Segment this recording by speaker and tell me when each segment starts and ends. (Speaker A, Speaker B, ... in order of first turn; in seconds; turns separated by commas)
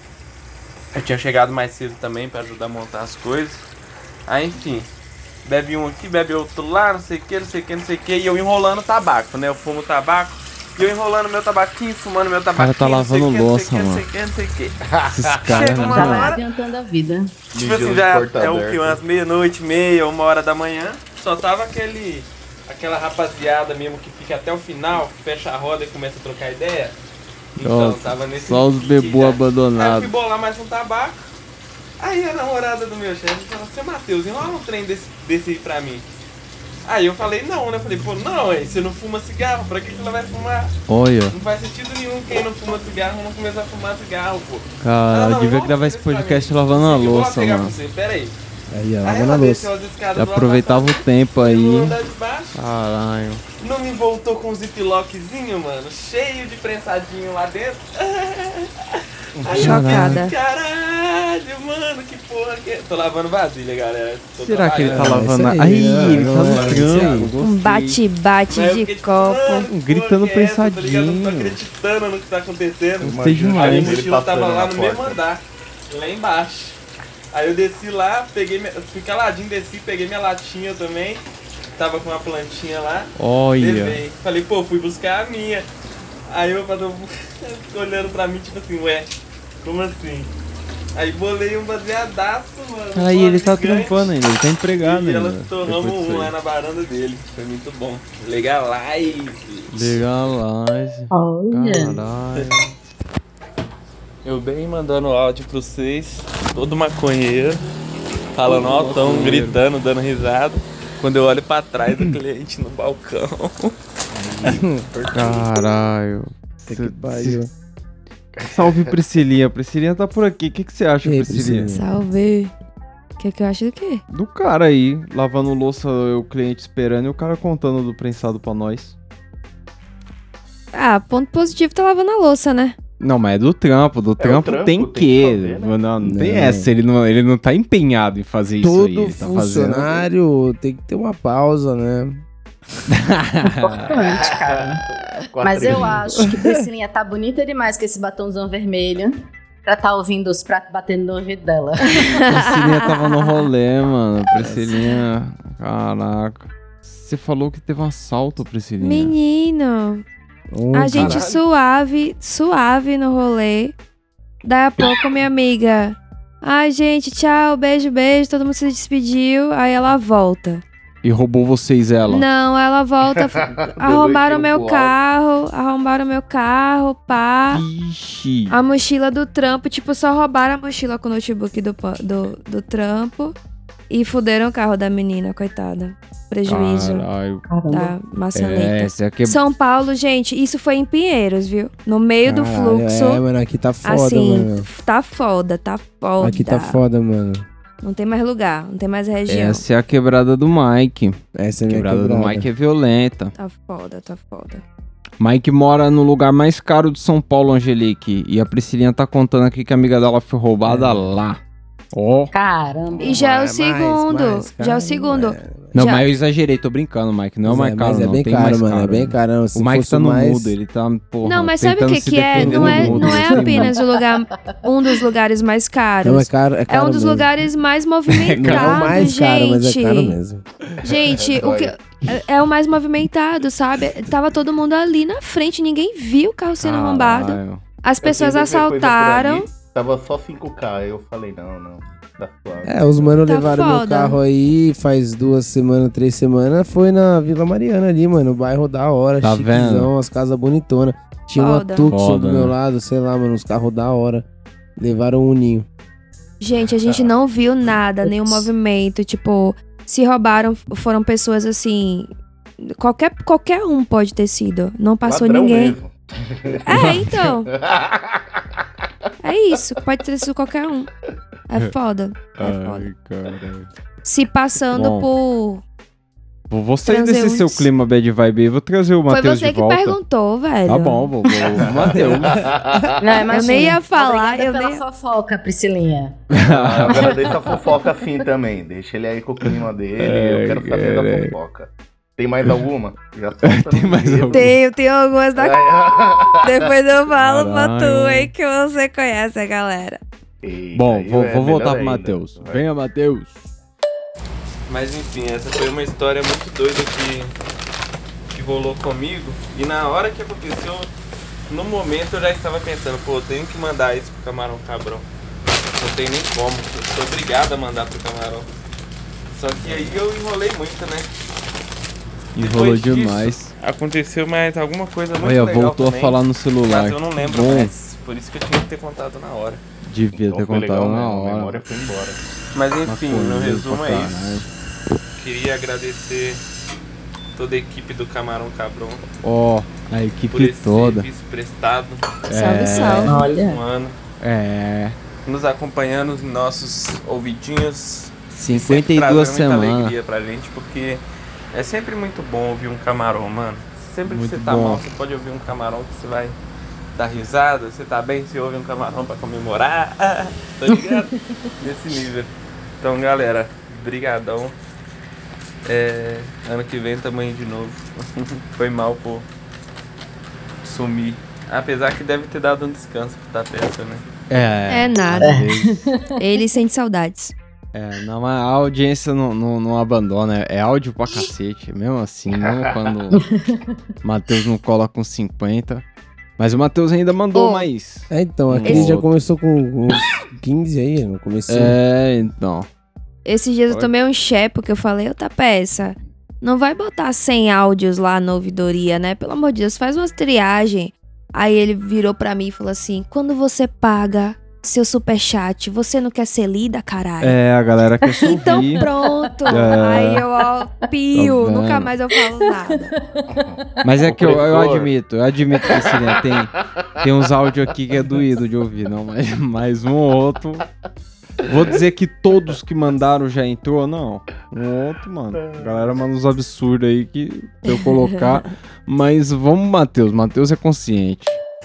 Speaker A: 0.9-3.6, Speaker A: 4.3-4.9, Speaker A: 5.4-14.8, Speaker B: 12.6-14.0, Speaker C: 14.8-15.2, Speaker B: 15.1-16.3, Speaker A: 15.4-16.4, Speaker D: 15.6-17.3, Speaker C: 17.5-19.0, Speaker A: 17.6-27.0, Speaker A: 27.6-31.2, Speaker B: 27.6-30.1, Speaker A: 32.0-36.0, Speaker A: 36.9-40.8, Speaker B: 40.9-41.4, Speaker A: 41.3-48.4, Speaker B: 44.8-47.7, Speaker E: 48.7-49.7, Speaker A: 49.0-52.5, Speaker B: 50.1-51.9, Speaker B: 52.5-53.4, Speaker A: 53.6-58.7, Speaker C: 59.4-59.8, Speaker A: 59.4-65.3, Speaker F: 59.5-60.4, Speaker B: 59.6-60.2, Speaker B: 64.4-68.0, Speaker E: 64.8-67.3, Speaker C: 66.4-66.8, Speaker F: 67.4-69.7, Speaker A: 68.5-76.8, Speaker B: 69.7-71.6, Speaker B: 73.0-74.0, Speaker C: 73.0-75.2, Speaker A: 77.3-81.2, Speaker A: 81.8-85.7, Speaker B: 83.2-84.0, Speaker A: 86.3-89.1, Speaker A: 89.6-90.3, Speaker A: 90.9-94.1, Speaker B: 92.9-96.3, Speaker A: 94.8-100.0, Speaker B: 99.7-102.6, Speaker D: 101.1-102.0, Speaker A: 104.2-107.6, Speaker A: 108.3-113.7, Speaker B: 108.5-109.6, Speaker C: 114.1-115.5, Speaker E: 114.5-114.8, Speaker B: 115.1-117.4, Speaker E: 116.7-117.5, Speaker C: 118.4-118.9, Speaker B: 118.5-121.7, Speaker E: 121.0-121.9, Speaker F: 121.7-122.5, Speaker F: 123.2-124.0, Speaker B: 124.1-128.9, Speaker F: 130.7-132.8, Speaker B: 133.0-140.1, Speaker C: 134.2-135.8, Speaker E: 136.0-136.7, Speaker E: 138.6-142.2, Speaker B: 142.9-143.9, Speaker D: 143.4-144.8, Speaker C: 144.1-146.1, Speaker D: 145.4-152.2, Speaker F: 152.0-153.4, Speaker B: 152.2-159.1, Speaker F: 158.8-160.0, Speaker E: 160.5-161.3, Speaker F: 160.7-163.7, Speaker B: 160.9-161.2, Speaker F: 164.4-170.6, Speaker B: 171.0-172.2, Speaker F: 172.1-177.6, Speaker C: 173.1-175.0, Speaker B: 177.5-178.6, Speaker F: 178.5-183.3, Speaker F: 183.9-187.1, Speaker B: 186.4-187.4, Speaker D: 187.5-187.9, Speaker F: 187.7-193.2, Speaker B: 188.3-189.4, Speaker E: 192.2-194.7, Speaker F: 193.8-196.8, Speaker E: 196.2-197.4, Speaker F: 197.8-199.6, Speaker B: 199.3-203.3, Speaker E: 201.3-202.5, Speaker F: 203.4-204.6, Speaker B: 205.2-211.4, Speaker E: 210.6-211.1, Speaker B: 211.9-212.3, Speaker D: 212.3-213.2, Speaker E: 213.0-215.8, Speaker F: 213.0-216.1, Speaker B: 215.7-223.7, Speaker E: 217.4-220.6, Speaker F: 221.2-230.2, Speaker E: 222.4-223.7, Speaker D: 223.7-224.6, Speaker E: 226.0-227.3, Speaker B: 228.1-229.0, Speaker E: 228.4-230.4, Speaker F: 230.8-239.5, Speaker C: 230.9-231.7, Speaker B: 236.6-237.6, Speaker C: 238.0-243.2, Speaker E: 242.6-254.2, Speaker F: 243.2-244.2, Speaker B: 249.2-249.9, Speaker F: 251.4-251.9, Speaker B: 251.9-252.6, Speaker E: 254.8-255.7, Speaker F: 256.4-262.1, Speaker F: 262.6-265.8, Speaker C: 265.0-268.4, Speaker F: 266.6-267.5, Speaker B: 266.7-267.1, Speaker F: 269.2-270.9, Speaker F: 271.5-272.9, Speaker B: 272.4-273.7, Speaker F: 274.0-275.6, Speaker B: 274.7-275.1, Speaker B: 276.5-280.0, Speaker F: 276.9-277.7, Speaker F: 279.1-281.1, Speaker B: 280.7-282.5, Speaker C: 281.6-282.9, Speaker D: 283.0-286.2, Speaker F: 283.3-284.8, Speaker B: 286.3-287.1, Speaker C: 286.4-294.6, Speaker D: 286.9-287.7, Speaker B: 290.0-291.3, Speaker B: 293.4-294.6, Speaker F: 294.3-295.6, Speaker C: 295.4-296.7, Speaker F: 296.4-300.0, Speaker B: 297.2-298.3, Speaker C: 300.4-302.6, Speaker B: 300.7-303.5, Speaker A: 304.7-307.3, Speaker A: 308.3-310.9, Speaker A: 311.5-315.1, Speaker A: 315.8-318.5, Speaker A: 319.3-321.1, Speaker B: 322.4-323.5, Speaker A: 322.4-329.6, Speaker B: 325.2-327.7, Speaker B: 329.8-331.6, Speaker C: 330.2-332.2, Speaker A: 332.5-334.4, Speaker B: 332.9-334.5, Speaker A: 335.2-336.4, Speaker A: 337.4-339.1, Speaker B: 339.2-341.1, Speaker A: 340.3-342.1, Speaker B: 342.3-343.2, Speaker F: 342.3-343.2, Speaker D: 343.1-343.6, Speaker A: 343.1-343.9, Speaker B: 344.2-344.9, Speaker A: 345.2-351.0, Speaker B: 348.3-349.9, Speaker A: 351.5-356.4, Speaker B: 354.1-354.8, Speaker A: 356.9-361.1, Speaker D: 360.7-361.2, Speaker A: 361.6-364.6, Speaker A: 365.6-369.3, Speaker A: 370.6-374.0, Speaker B: 374.3-375.9, Speaker F: 374.7-375.4, Speaker D: 375.2-376.2, Speaker F: 376.2-377.3, Speaker B: 377.7-383.2, Speaker C: 382.4-382.7, Speaker D: 383.1-383.6, Speaker B: 384.0-385.9, Speaker B: 386.4-389.1, Speaker F: 387.4-387.7, Speaker E: 388.1-391.7, Speaker B: 391.5-392.7, Speaker F: 393.2-407.4, Speaker B: 407.2-408.9, Speaker D: 408.2-409.6, Speaker F: 408.2-412.9, Speaker B: 409.5-410.2, Speaker B: 411.1-411.9, Speaker D: 412.2-413.5, Speaker B: 413.8-420.6, Speaker C: 414.0-414.9, Speaker B: 421.4-431.4, Speaker C: 425.3-426.0, Speaker F: 427.7-428.2